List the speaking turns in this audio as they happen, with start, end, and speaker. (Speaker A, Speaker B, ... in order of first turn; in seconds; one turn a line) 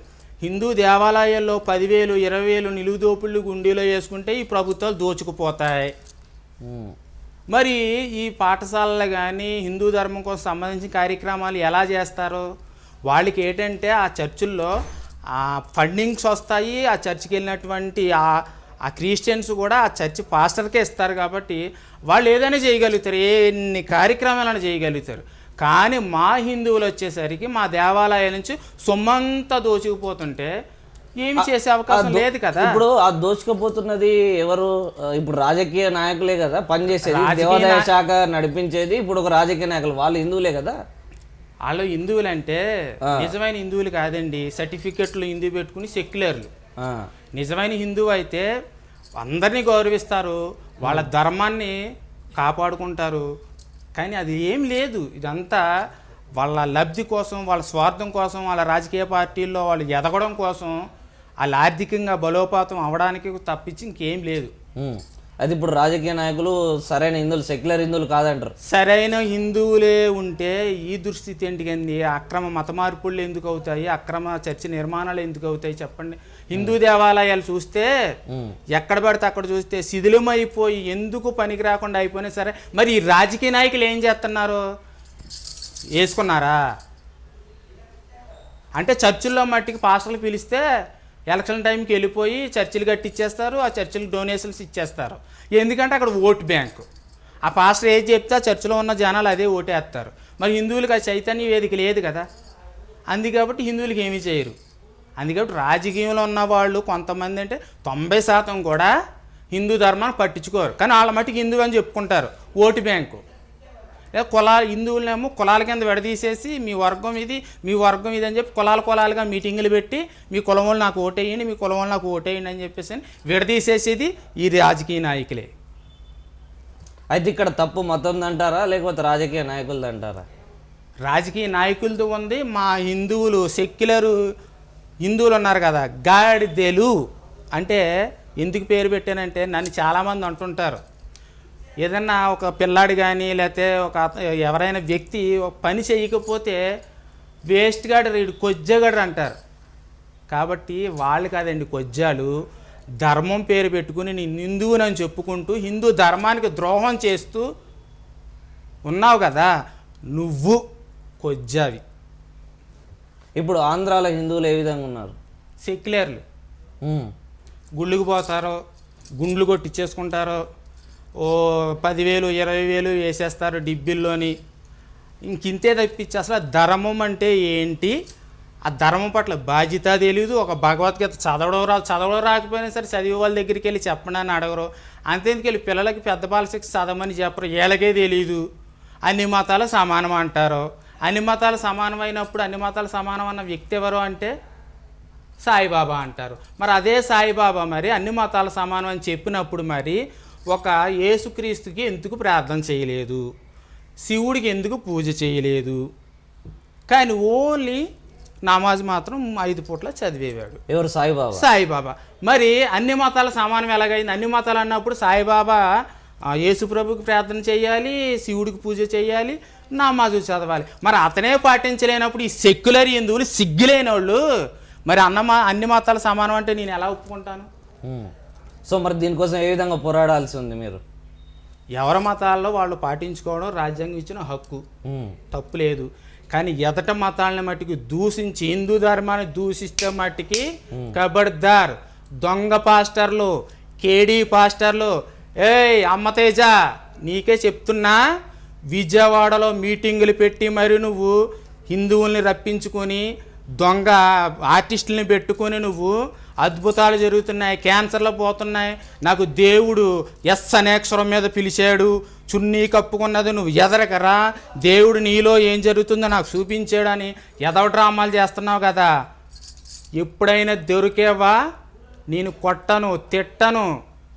Speaker A: 0.4-5.9
Speaker B: 6.6-6.9
Speaker A: 7.5-12.4
Speaker A: 13.1-14.7
Speaker A: 15.3-30.5
Speaker A: 31.2-32.8
Speaker B: 31.4-40.8
Speaker A: 37.0-37.9
Speaker A: 41.6-46.5
Speaker B: 43.0-43.3
Speaker B: 46.8-47.1
Speaker A: 47.3-48.5
Speaker A: 49.2-51.7
Speaker B: 50.8-51.1
Speaker A: 52.4-53.2
Speaker A: 54.0-55.6
Speaker A: 56.4-60.8
Speaker A: 61.4-64.5
Speaker B: 64.8-68.5
Speaker A: 68.6-77.9
Speaker B: 78.3-78.5
Speaker A: 78.7-84.6
Speaker A: 86.0-86.6
Speaker A: 88.8-90.6
Speaker A: 91.3-96.9
Speaker A: 97.5-102.2
Speaker A: 103.1-104.5
Speaker A: 105.2-108.9
Speaker A: 109.5-113.2
Speaker A: 114.2-125.5
Speaker B: 127.1-130.2
Speaker A: 131.1-134.1
Speaker A: 135.0-136.9
Speaker A: 137.6-137.8
Speaker A: 138.4-140.8
Speaker A: 141.8-146.6
Speaker A: 147.5-149.3
Speaker A: 150.3-152.3
Speaker A: 153.0-157.4
Speaker A: 158.9-159.5
Speaker A: 160.1-160.6
Speaker A: 161.2-161.8
Speaker B: 163.4-165.2
Speaker A: 165.6-166.2
Speaker B: 166.8-167.1
Speaker A: 167.8-168.6
Speaker A: 169.2-170.4
Speaker A: 171.2-174.3
Speaker A: 175.3-177.9
Speaker A: 178.7-188.4
Speaker A: 189.1-194.3
Speaker A: 195.4-203.2
Speaker A: 204.0-205.8
Speaker A: 206.9-207.8
Speaker A: 208.5-210.6
Speaker B: 210.7-211.4
Speaker A: 211.3-215.6
Speaker A: 216.4-224.2
Speaker A: 224.9-227.5
Speaker B: 227.8-228.1
Speaker B: 228.7-230.8
Speaker A: 231.8-234.6
Speaker B: 234.8-235.2
Speaker A: 235.3-246.5
Speaker A: 247.0-248.0
Speaker A: 248.7-251.2
Speaker A: 251.7-253.0
Speaker A: 253.6-268.9
Speaker A: 270.0-271.4
Speaker A: 272.1-273.7